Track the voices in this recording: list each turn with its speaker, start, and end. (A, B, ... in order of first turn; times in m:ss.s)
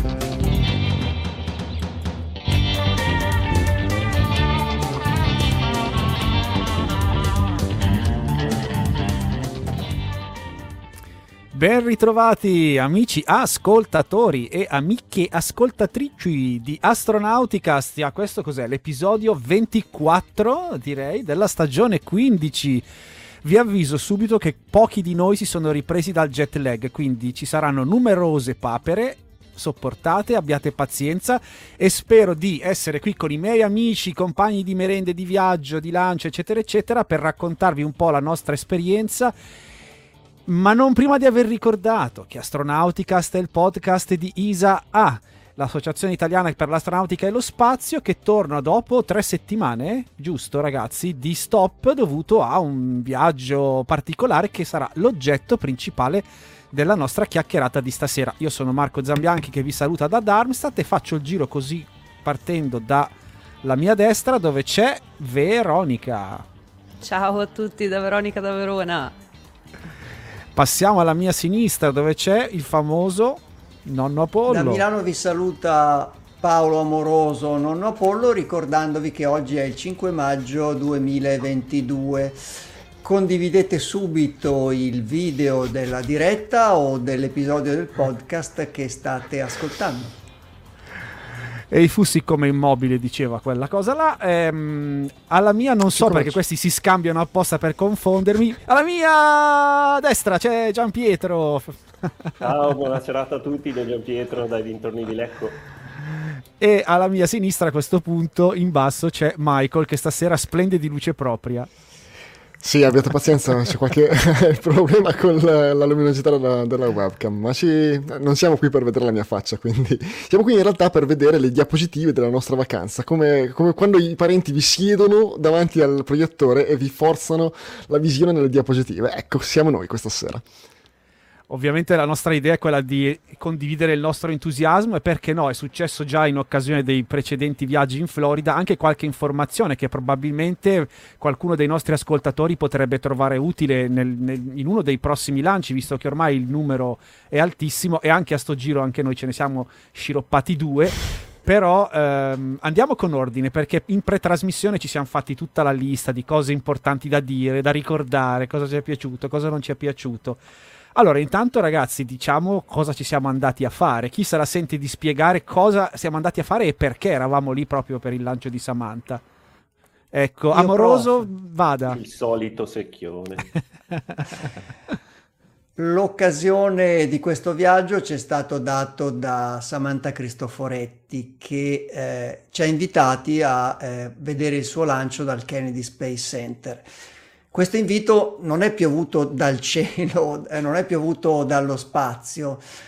0:11.5-0:22.8 A
0:23.4-0:39.3 A
0:40.5-1:03.1 A
1:03.6-1:06.4 A
1:07.0-1:09.1 B
1:10.5-1:14.8 A
1:14.5-1:22.4 C
1:23.0-1:30.2 C
1:31.7-1:42.3 A
1:36.0-1:36.4 D
1:42.4-1:45.6 E
1:46.6-1:51.7 A
1:52.6-2:10.4 D
2:11.5-2:40.4 A
2:41.0-2:49.2 A
2:50.1-2:52.0 A
2:50.5-2:51.2 C
2:51.9-2:53.5 E
2:55.8-3:06.9 C
3:07.5-3:12.6 C